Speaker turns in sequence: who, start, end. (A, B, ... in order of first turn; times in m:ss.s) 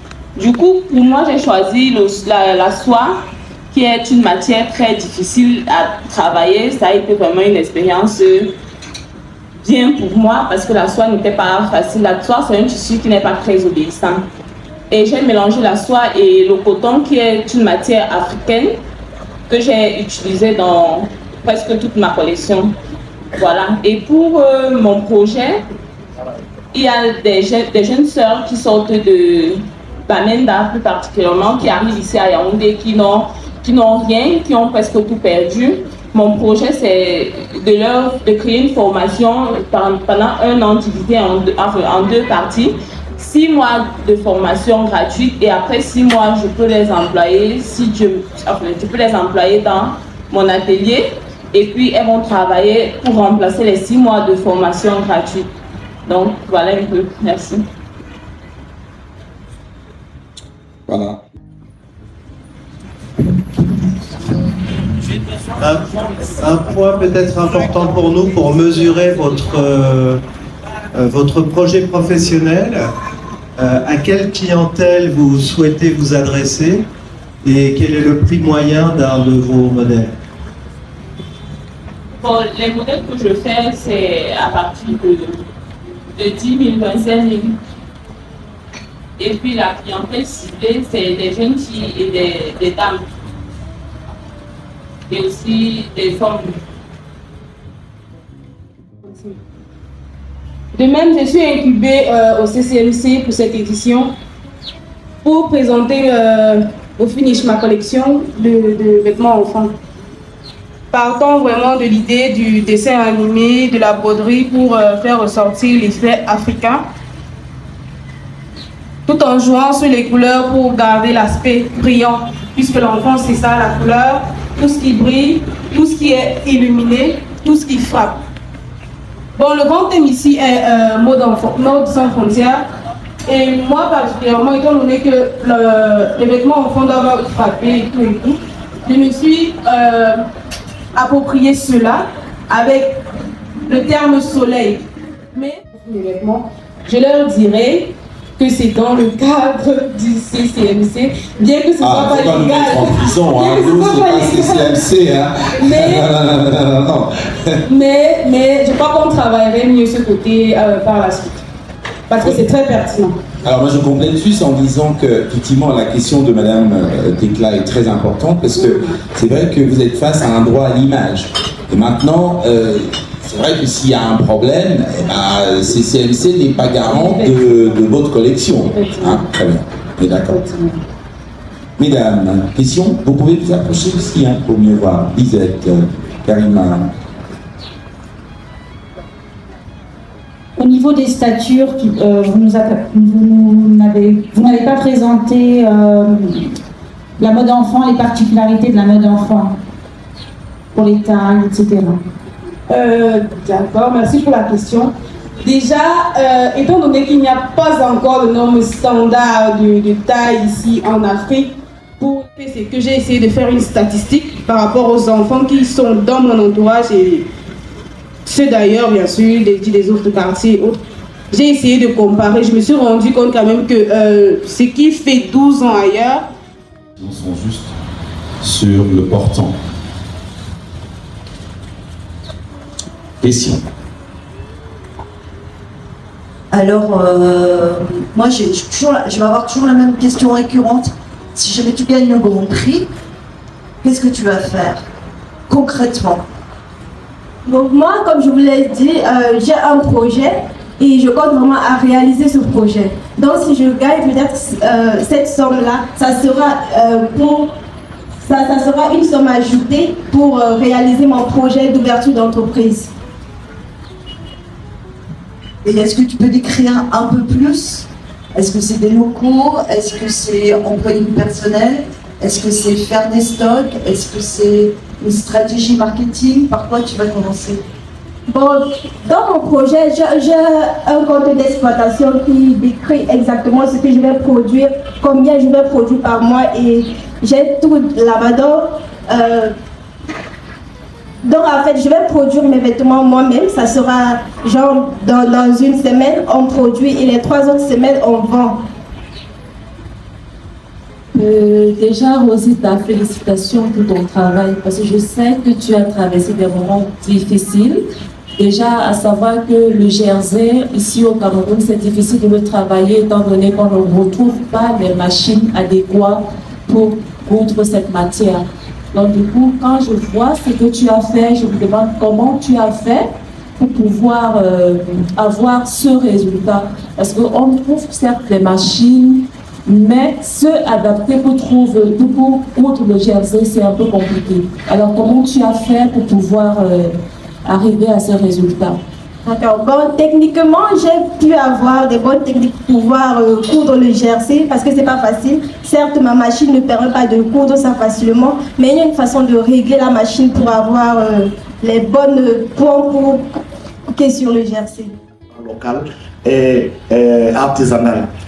0:00.4-0:08.5 A
0:09.6-0:14.3 A
0:14.9-0:18.8 A
0:19.5-0:22.7 A
0:23.4-0:25.6 A
0:26.7-0:55.5 A
0:56.1-0:57.6 A
1:00.9-1:01.2 B
1:05.6-1:10.2 C
1:10.9-1:12.9 C
1:13.6-1:16.8 C
1:17.4-1:20.1 C
1:22.2-1:25.4 A
1:26.2-1:27.6 A
1:29.2-1:33.0 A
1:35.1-1:36.6 A
1:39.0-1:39.4 D
1:40.7-1:44.1 D
1:45.2-1:49.7 D
1:50.9-1:56.9 D
1:59.1-2:08.2 D
2:09.4-2:12.7 D
2:13.3-2:20.2 D
2:20.9-2:23.0 D
2:23.6-2:34.8 D
2:31.8-2:37.6 B
2:35.6-2:36.1 D
2:37.7-2:41.4 D
2:42.1-2:43.2 D
2:43.4-3:00.4 B
2:56.9-2:57.3 D
2:58.7-2:59.2 D
3:00.3-3:00.6 D
3:01.8-3:06.9 B
3:10.6-3:16.5 E
3:17.2-3:19.6 E
3:20.7-3:22.0 E
3:22.7-3:37.3 D
3:38.2-3:46.3 D
3:47.0-3:47.7 B
3:48.4-3:49.6 B
3:53.2-3:53.6 B
3:56.5-4:02.9 F
4:03.8-4:04.8 F
4:05.5-4:06.2 F
4:07.4-4:17.5 G
4:18.2-4:22.9 G
4:25.6-4:37.6 F
4:38.3-4:49.6 G
4:51.2-4:58.6 G
5:01.1-5:38.8 H
5:39.2-5:54.9 G
5:55.3-5:58.1 I